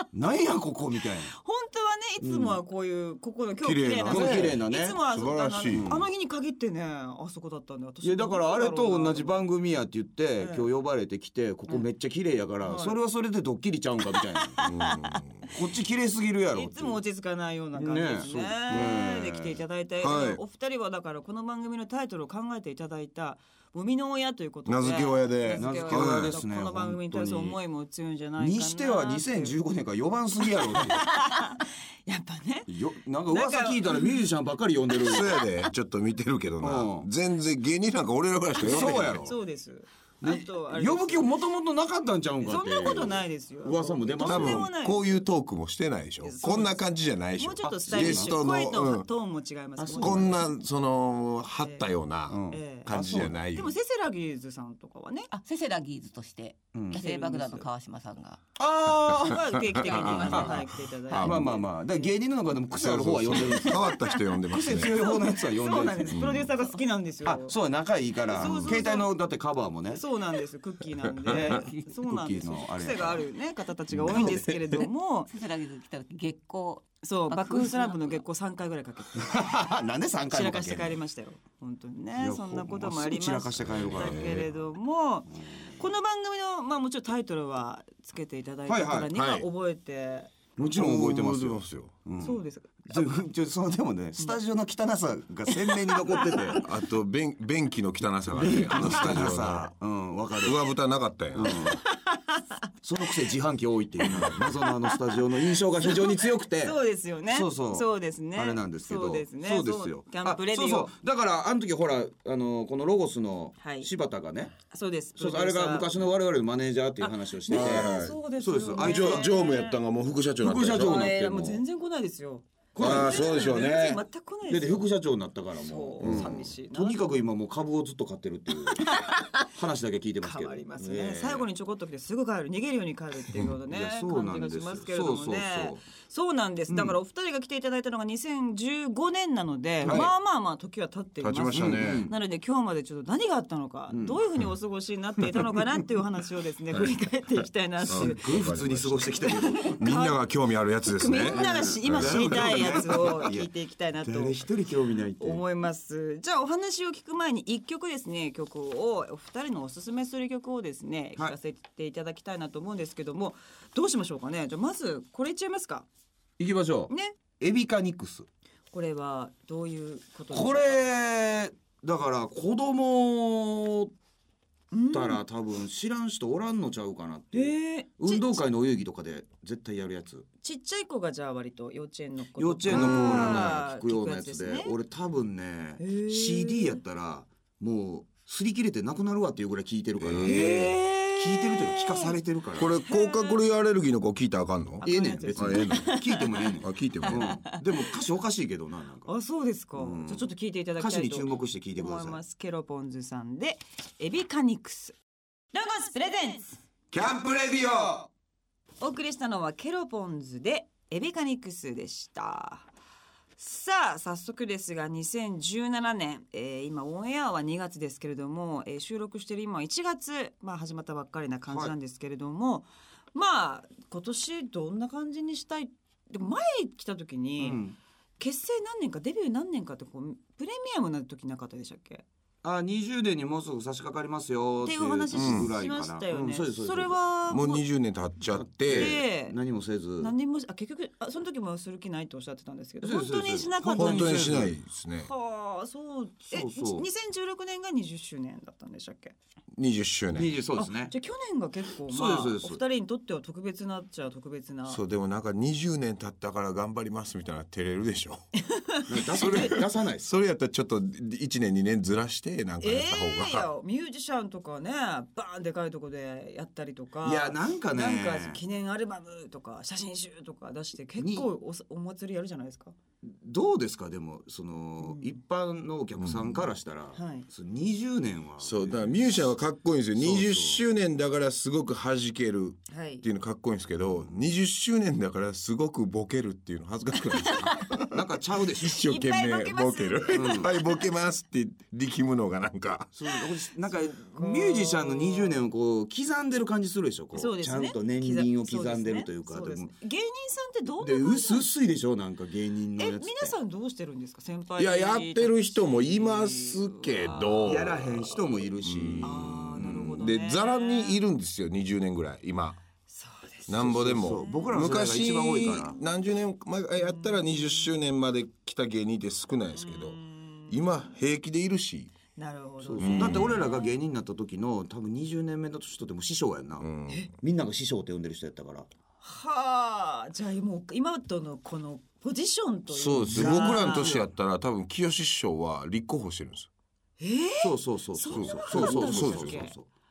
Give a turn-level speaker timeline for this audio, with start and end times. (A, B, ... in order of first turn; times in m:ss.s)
0:00.1-0:01.3 A
0:01.3-0:09.4 B
0:02.2-0:02.6 A
0:03.6-0:05.9 C
0:04.1-0:05.0 A
0:05.7-0:06.1 A
0:08.0-0:14.6 A
0:10.4-0:10.7 B
0:12.6-0:13.0 B
0:14.5-0:15.2 B
0:14.6-0:15.4 C
0:15.5-0:17.0 A
0:16.5-0:29.6 B
0:17.8-0:19.6 A
0:18.7-0:19.0 C
0:20.0-0:20.4 C
0:24.7-0:26.4 C
0:25.6-0:27.6 A
0:28.4-0:31.1 A
0:30.7-0:32.7 B
0:32.7-0:35.3 A
0:33.3-0:34.2 B
0:35.0-0:35.4 B
0:35.0-0:39.3 C
0:36.6-0:37.1 A
0:38.6-0:39.4 A
0:38.7-0:41.3 B
0:40.2-0:44.7 A
0:42.4-0:45.1 B
0:44.2-0:49.1 C
0:46.2-0:46.8 B
0:47.4-0:50.5 B
0:47.6-0:48.4 A
0:49.8-0:50.4 A
0:50.0-0:53.7 C
0:51.6-0:51.9 B
0:52.3-0:53.3 A
0:52.5-0:55.3 B
0:55.3-0:58.4 D
0:56.7-0:57.0 A
0:56.9-0:57.7 B
0:58.6-1:02.1 B
0:59.1-1:01.5 C
1:00.1-1:00.6 A
1:01.2-1:03.8 A
1:02.7-1:05.1 C
1:03.5-1:07.5 B
1:04.5-1:06.3 A
1:06.1-1:06.5 C
1:07.2-1:10.0 A
1:08.3-1:09.1 B
1:08.4-1:08.8 C
1:09.9-1:15.3 B
1:11.3-1:13.3 A
1:11.6-1:11.9 D
1:13.9-1:14.3 C
1:14.1-1:14.8 A
1:14.7-1:18.2 D
1:17.0-1:19.4 B
1:19.2-1:21.0 A
1:20.3-1:30.3 B
1:22.2-1:24.5 A
1:23.6-1:24.5 C
1:28.7-1:29.1 A
1:29.1-1:29.5 C
1:30.6-1:36.6 A
1:30.7-1:32.0 C
1:32.2-1:33.1 B
1:35.5-1:36.6 B
1:36.6-1:39.7 C
1:38.3-1:40.7 A
1:40.4-1:41.7 C
1:41.3-1:41.8 A
1:41.7-1:42.5 B
1:42.8-1:46.8 A
1:44.0-1:50.9 B
1:44.1-1:44.4 C
1:47.3-1:54.6 A
1:53.6-1:53.9 B
1:54.7-1:55.9 B
1:55.2-1:59.3 A
1:57.0-1:59.8 B
1:57.5-1:58.2 C
1:58.8-2:01.1 C
2:00.4-2:01.6 A
2:00.6-2:04.9 B
2:02.8-2:03.6 A
2:02.8-2:04.0 C
2:04.5-2:11.5 A
2:05.6-2:07.2 B
2:06.0-2:06.5 C
2:08.6-2:09.5 B
2:10.2-2:28.4 B
2:13.7-2:15.8 A
2:16.7-2:17.0 A
2:19.8-2:20.1 A
2:19.8-2:20.1 C
2:21.2-2:22.1 C
2:21.5-2:22.1 A
2:23.9-2:24.2 A
2:27.9-2:29.8 A
2:27.9-2:33.0 C
2:29.2-2:30.3 B
2:30.8-2:34.5 B
2:31.2-2:33.5 A
2:34.0-2:35.4 A
2:35.2-2:45.9 B
2:46.4-2:48.3 A
2:46.9-2:47.2 B
2:48.7-2:50.8 B
2:50.3-2:53.9 A
2:54.7-2:55.2 B
2:54.9-3:00.3 A
2:57.3-2:58.5 B
3:00.4-3:04.8 B
3:02.4-3:12.7 A
3:02.7-3:03.6 C
3:05.8-3:06.8 B
3:10.0-3:10.7 C
3:10.2-3:12.2 B
3:12.6-3:16.0 C
3:12.9-3:13.4 B
3:14.8-3:19.1 A
3:14.8-3:16.5 B
3:16.6-3:17.4 C
3:17.1-3:17.6 B
3:19.1-3:25.0 B
3:19.8-3:22.2 A
3:25.5-3:26.6 B
3:26.9-3:28.1 C
3:28.8-3:32.7 B
3:33.4-3:47.6 B
3:41.5-3:41.7 A
3:47.4-3:47.8 A
3:48.2-3:52.0 B
3:52.4-3:57.0 A
3:54.6-3:57.6 B
3:55.1-3:55.5 C
3:57.3-3:59.0 C
3:58.3-4:00.1 A
3:58.7-3:59.4 B
4:00.0-4:04.4 B
4:02.8-4:04.6 A
4:03.7-4:05.1 C
4:05.0-4:09.2 B
4:06.3-4:06.9 A
4:09.5-4:10.4 C
4:10.1-4:10.9 A
4:10.6-4:14.8 B
4:11.9-4:12.6 A
4:14.7-4:18.3 C
4:18.5-4:19.6 B
4:18.9-4:20.1 A
4:19.1-4:23.5 C
4:22.6-4:32.7 B
4:27.0-4:28.4 A
4:31.0-4:31.3 A
4:33.0-4:39.1 A
4:34.8-4:35.2 B
4:36.0-4:36.5 C
4:36.9-4:37.3 B
4:38.4-4:48.0 C
4:40.0-4:40.6 A
4:42.7-4:43.0 B
4:47.9-4:48.8 A
4:48.6-4:53.0 C
4:48.7-4:50.9 B
4:50.1-4:50.5 A
4:52.9-4:59.7 A
4:53.7-4:55.4 B
4:57.1-5:01.5 B
5:00.8-5:03.4 A
5:02.8-5:08.2 B
5:04.6-5:12.6 C
5:07.4-5:10.0 A
5:09.0-5:11.0 B
5:12.9-5:14.5 B
5:13.5-5:21.9 C
5:13.6-5:15.8 A
5:16.8-5:17.8 B
5:19.5-5:20.6 B
5:22.2-5:23.8 B
5:22.6-5:26.7 A
5:22.8-5:23.4 C
5:26.6-5:27.1 C
5:27.2-5:28.7 A
5:29.0-5:34.1 B
5:32.7-5:36.5 C
5:33.1-5:34.0 A
5:37.0-5:39.6 B
5:37.4-5:39.7 A
5:38.1-5:39.4 C